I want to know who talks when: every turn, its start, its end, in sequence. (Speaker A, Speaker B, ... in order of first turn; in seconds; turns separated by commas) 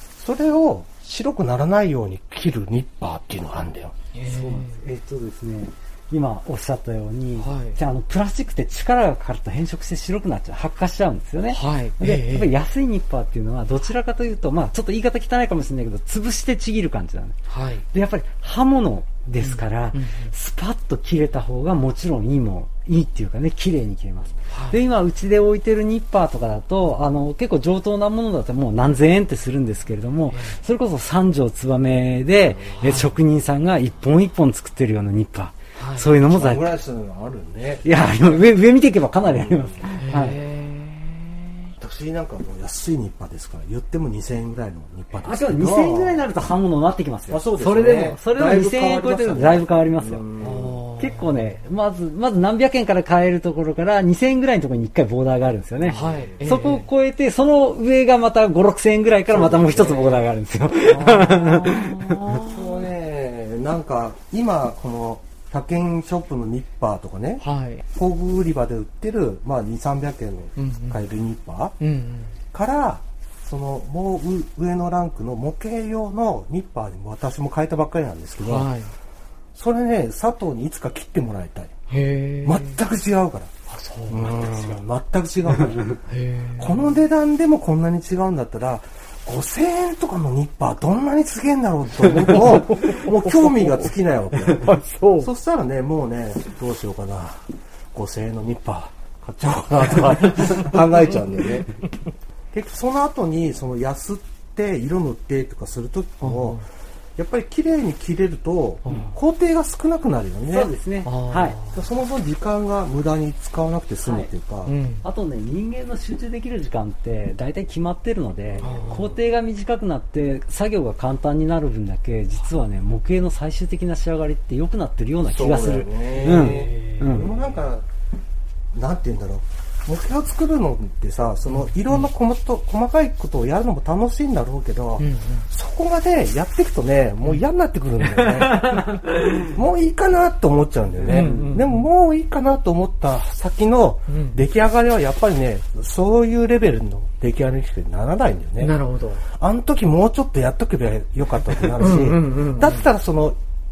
Speaker A: 0.2-4.0, Speaker B: 4.1-4.8, Speaker C: 4.2-17.4, Speaker B: 7.4-7.8, Speaker B: 11.5-12.5, Speaker B: 17.5-17.9, Speaker C: 17.9-36.7, Speaker B: 19.4-20.3, Speaker B: 24.5-24.8, Speaker B: 30.3-30.6, Speaker B: 32.6-33.1, Speaker B: 35.8-36.1, Speaker A: 36.2-38.4, Speaker C: 37.8-40.4, Speaker A: 39.2-39.9, Speaker B: 40.0-41.7, Speaker A: 41.8-46.3, Speaker C: 45.2-50.3, Speaker A: 47.3-50.8, Speaker B: 50.4-51.6, Speaker C: 51.0-62.4, Speaker A: 55.9-56.6, Speaker B: 55.9-56.9, Speaker A: 59.3-60.3, Speaker B: 60.9-62.7, Speaker A: 62.3-71.8, Speaker B: 67.4-67.8, Speaker B: 70.6-71.0, Speaker B: 71.8-72.3, Speaker A: 72.5-78.7, Speaker B: 78.4-78.9, Speaker A: 79.5-81.7, Speaker B: 81.9-82.8, Speaker A: 82.4-83.5, Speaker B: 83.7-84.8, Speaker A: 84.1-86.0, Speaker B: 86.1-87.0, Speaker A: 86.6-101.7, Speaker B: 92.1-95.3, Speaker B: 100.3-100.6, Speaker A: 102.5-106.6, Speaker B: 106.2-106.6, Speaker A: 107.2-110.7, Speaker B: 108.8-109.2, Speaker C: 110.5-111.6, Speaker B: 111.0-111.8, Speaker A: 111.7-114.8, Speaker C: 114.0-114.3, Speaker B: 114.7-115.0, Speaker C: 115.0-127.3, Speaker B: 118.6-119.2, Speaker A: 125.2-127.9, Speaker B: 126.1-127.5, Speaker A: 128.7-148.8, Speaker B: 135.0-135.5, Speaker C: 138.4-139.1, Speaker B: 141.0-141.9, Speaker C: 141.1-141.6, Speaker B: 144.1-144.4, Speaker B: 148.6-149.2, Speaker A: 149.3-153.4, Speaker B: 151.6-152.9